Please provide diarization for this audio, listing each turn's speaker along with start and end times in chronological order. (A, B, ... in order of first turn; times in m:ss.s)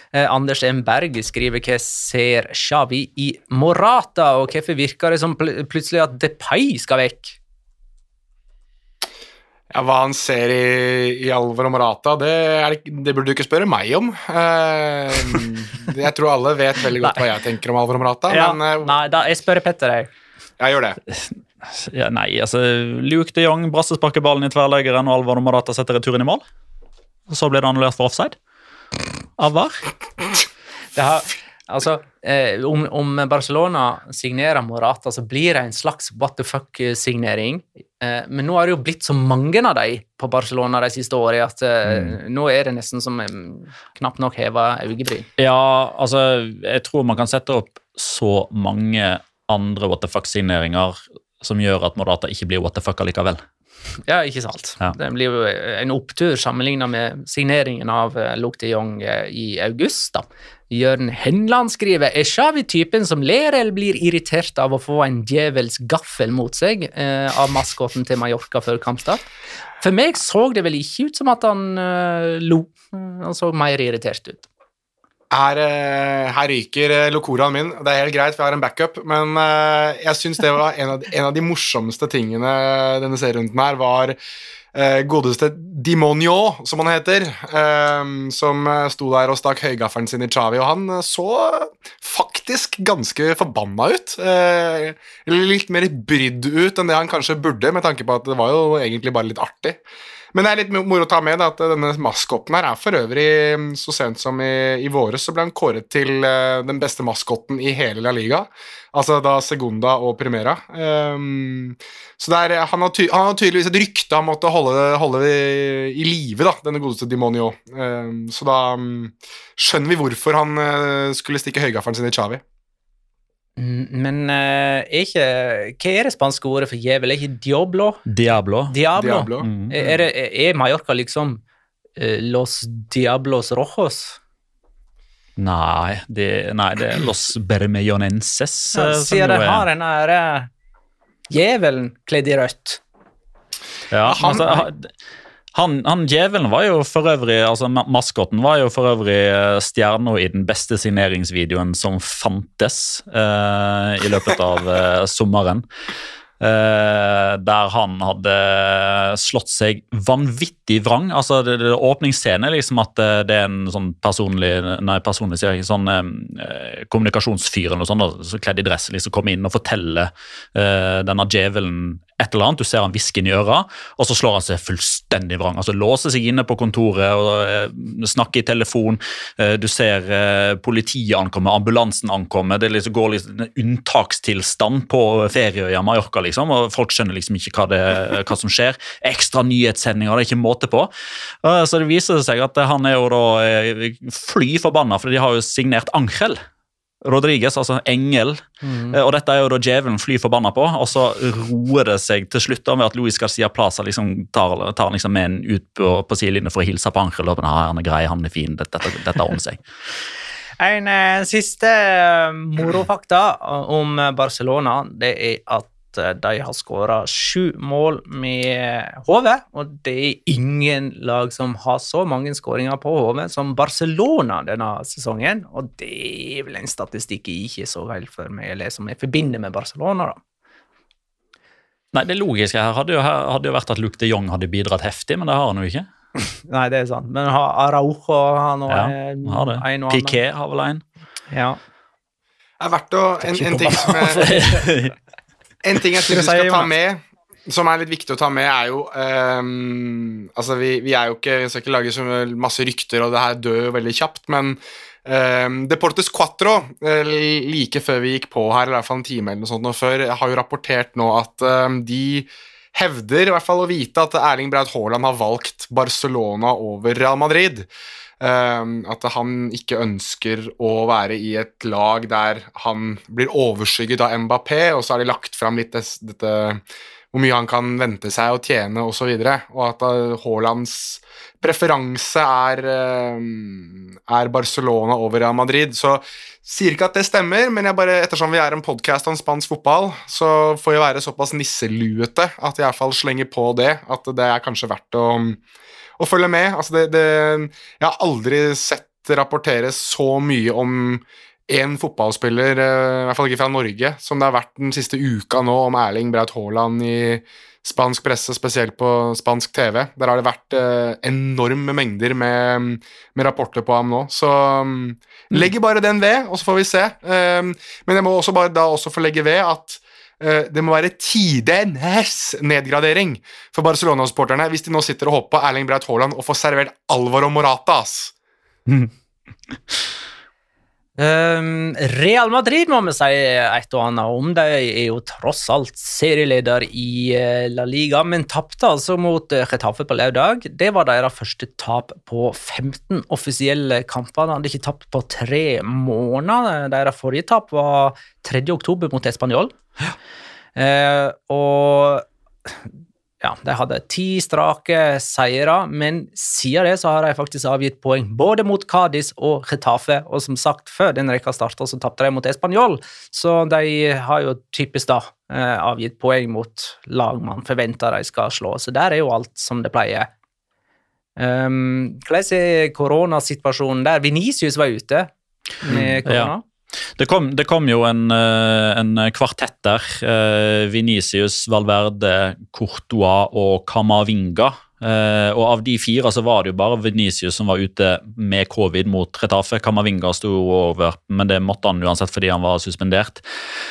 0:00.1-0:07.4 A
0:09.7-0:18.9 B
0:18.3-0:20.1 A
0:20.6-0:21.0 B
0:21.1-0:26.4 C
0:27.3-0:28.4 C
0:29.4-0:29.8 C
0:31.0-0:45.3 A
0:41.9-0:42.2 C
0:45.4-0:53.4 C
0:54.1-1:09.2 A
1:09.8-1:14.4 A
1:15.3-1:24.2 B
1:24.7-1:39.8 B
1:40.3-2:02.4 B
2:03.6-2:08.0 A
2:08.1-2:08.8 C
2:08.7-2:11.4 A
2:09.0-2:09.5 B
2:09.4-2:09.7 C
2:12.0-2:14.2 A
2:15.4-2:19.7 C
2:18.7-2:20.5 A
2:21.3-2:22.8 A
2:23.9-2:24.9 C
2:24.1-2:24.5 B
2:25.5-2:35.6 C
2:36.4-3:10.9 C
3:11.4-3:16.4 C
3:17.0-3:29.6 C
3:18.6-3:19.0 A
3:30.6-3:50.2 A
3:51.9-3:55.9 C
3:56.5-4:00.2 A
3:58.7-4:00.8 C
4:01.3-4:01.6 A
4:02.6-4:04.4 B
4:03.3-4:04.9 C
4:05.6-4:27.7 B
4:06.1-4:06.7 A
4:28.2-4:36.6 B
4:37.1-4:55.4 B
4:56.0-5:28.1 B
5:31.0-5:49.5 A
5:50.6-5:52.5 A
5:53.2-6:10.1 A
6:11.2-6:15.1 A
6:15.6-6:16.4 A
6:15.7-6:16.3 C
6:17.0-6:33.2 C